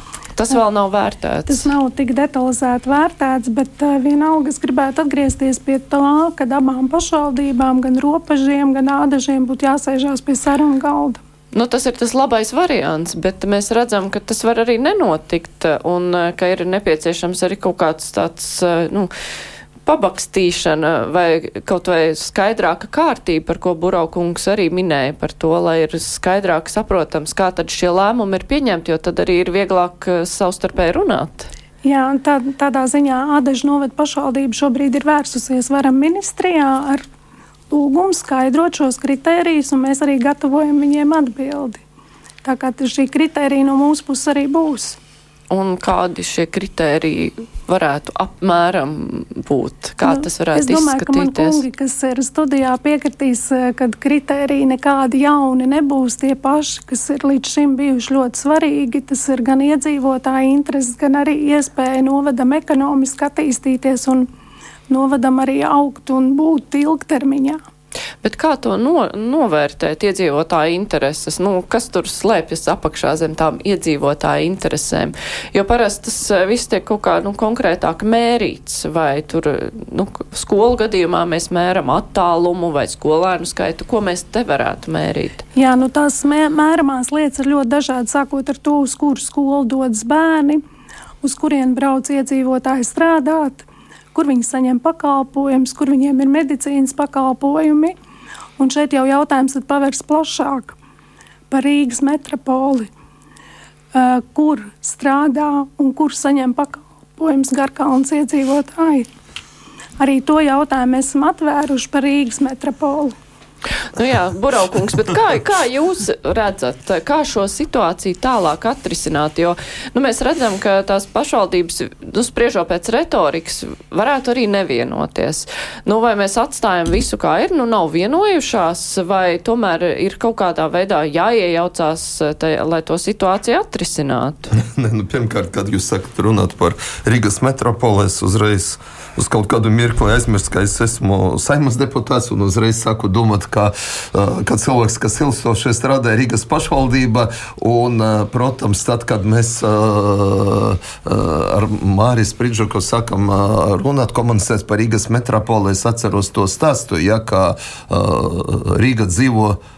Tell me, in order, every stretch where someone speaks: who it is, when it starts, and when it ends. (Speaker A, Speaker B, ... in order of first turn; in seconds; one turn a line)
Speaker A: 0.4-1.7
Speaker B: 1.5-11.2
Speaker A: 11.5-19.1
Speaker A: 19.9-31.5
Speaker B: 31.8-37.0
Speaker B: 37.7-41.8
Speaker B: 42.4-45.0
Speaker A: 45.5-51.6
Speaker B: 50.0-64.3
Speaker B: 64.9-67.6
Speaker A: 68.2-85.4
Speaker B: 85.5-90.6
Speaker B: 91.2-97.9
Speaker B: 98.6-100.8
Speaker B: 101.5-102.9
Speaker B: 103.9-109.1
Speaker B: 110.0-113.1
Speaker A: 113.9-134.5
Speaker C: 134.5-159.6